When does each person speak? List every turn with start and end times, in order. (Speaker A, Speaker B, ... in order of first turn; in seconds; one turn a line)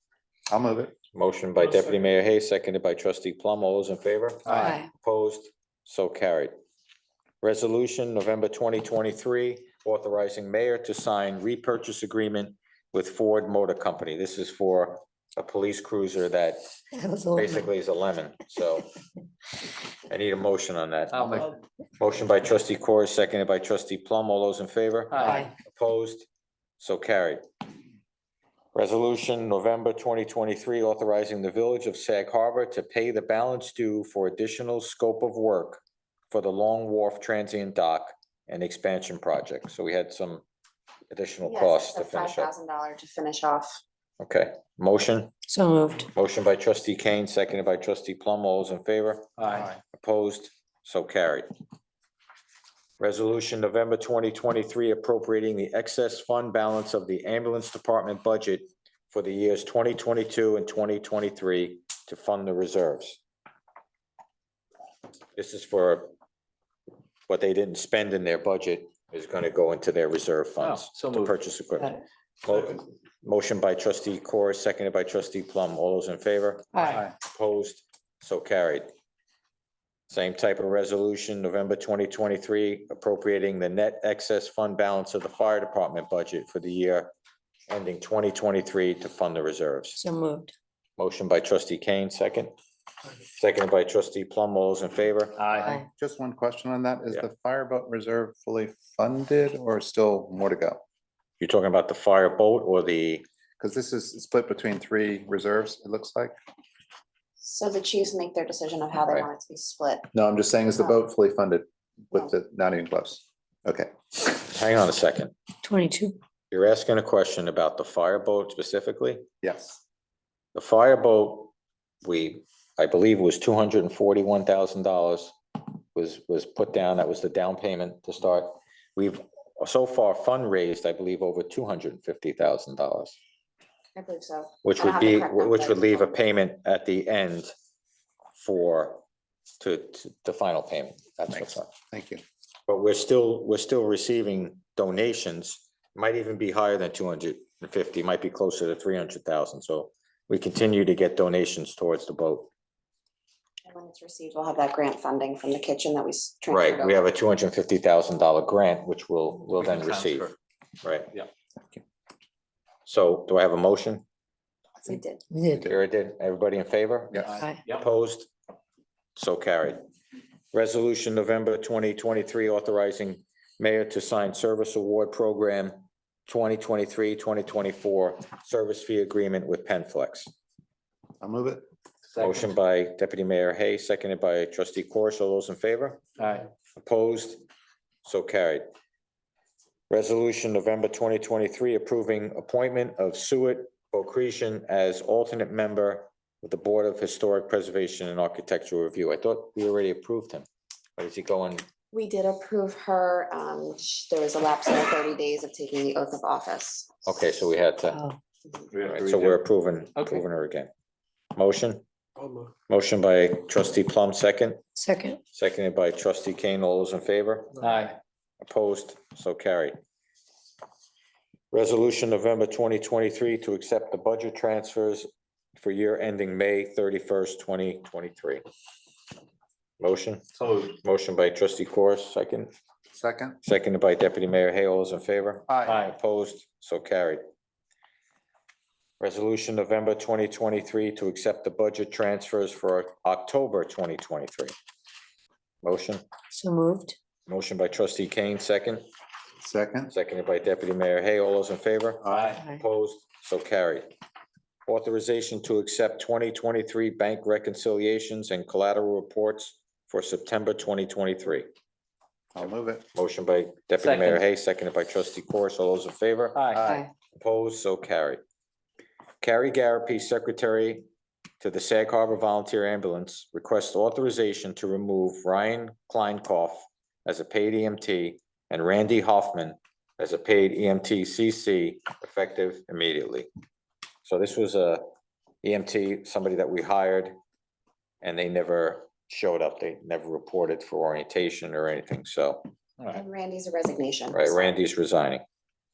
Speaker A: 0.5-0.9
Speaker B: 1.1-6.5
Speaker B: 7.4-16.6
Speaker C: 17.0-17.7
Speaker B: 17.3-18.9
Speaker B: 20.1-21.4
Speaker D: 21.1-21.4
Speaker B: 22.0-26.3
Speaker B: 26.8-27.4
Speaker B: 28.7-40.5
Speaker B: 41.1-42.5
Speaker E: 41.4-43.8
Speaker B: 44.2-45.3
Speaker C: 45.5-46.0
Speaker B: 46.1-49.3
Speaker D: 49.4-49.6
Speaker A: 49.5-49.7
Speaker B: 49.9-51.5
Speaker B: 53.0-63.2
Speaker B: 65.4-66.1
Speaker B: 67.3-78.9
Speaker D: 70.6-71.3
Speaker B: 80.1-87.1
Speaker B: 87.7-90.0
Speaker C: 90.0-90.5
Speaker B: 91.0-92.5
Speaker B: 93.4-95.4
Speaker D: 95.4-95.7
Speaker A: 95.5-100.8
Speaker B: 101.4-103.2
Speaker A: 103.6-106.3
Speaker E: 107.4-110.1
Speaker A: 110.1-113.9
Speaker B: 114.2-115.3
Speaker C: 115.6-116.2
Speaker B: 116.5-119.2
Speaker A: 119.4-119.8
Speaker B: 120.5-121.5
Speaker B: 122.0-125.3
Speaker B: 125.9-133.1
Speaker E: 133.9-136.1
Speaker B: 134.6-137.5
Speaker B: 138.4-139.0
Speaker B: 139.6-141.7
Speaker A: 141.2-142.2
Speaker B: 142.7-152.5
Speaker E: 153.7-157.0
Speaker B: 156.5-161.1
Speaker B: 162.8-164.0
Speaker E: 164.8-165.2
Speaker C: 165.3-165.6
Speaker B: 165.6-168.3
Speaker A: 167.1-167.4
Speaker B: 169.2-169.8
Speaker B: 170.5-175.8
Speaker B: 176.3-180.3
Speaker A: 181.2-181.6
Speaker B: 182.2-186.0
Speaker D: 186.2-186.4
Speaker B: 186.8-187.4
Speaker B: 188.0-188.6
Speaker B: 189.9-200.4
Speaker B: 201.0-201.6
Speaker E: 201.9-206.9
Speaker B: 207.0-208.0
Speaker D: 208.7-209.3
Speaker B: 208.8-210.7
Speaker B: 211.3-211.8
Speaker B: 212.7-214.6
Speaker C: 214.8-215.2
Speaker B: 215.3-217.6
Speaker D: 217.6-217.9
Speaker B: 218.4-219.8
Speaker B: 221.5-228.4
Speaker B: 229.8-232.5
Speaker A: 232.9-233.4
Speaker B: 233.4-237.2
Speaker A: 235.5-235.8
Speaker D: 235.6-235.9
Speaker B: 239.0-244.5
Speaker B: 245.6-246.0
Speaker C: 246.3-247.0
Speaker B: 247.3-248.8
Speaker A: 249.4-249.9
Speaker B: 249.9-253.9
Speaker A: 252.0-252.4
Speaker D: 252.1-252.4
Speaker B: 254.7-261.5
Speaker A: 262.3-262.8
Speaker B: 262.9-266.4
Speaker D: 263.8-264.2
Speaker D: 266.3-266.6
Speaker A: 266.5-266.9
Speaker B: 267.1-268.2
Speaker B: 269.2-270.8
Speaker B: 271.4-283.3
Speaker B: 284.0-284.8
Speaker B: 285.4-287.1
Speaker B: 288.0-292.5
Speaker E: 292.9-294.5
Speaker B: 294.1-295.2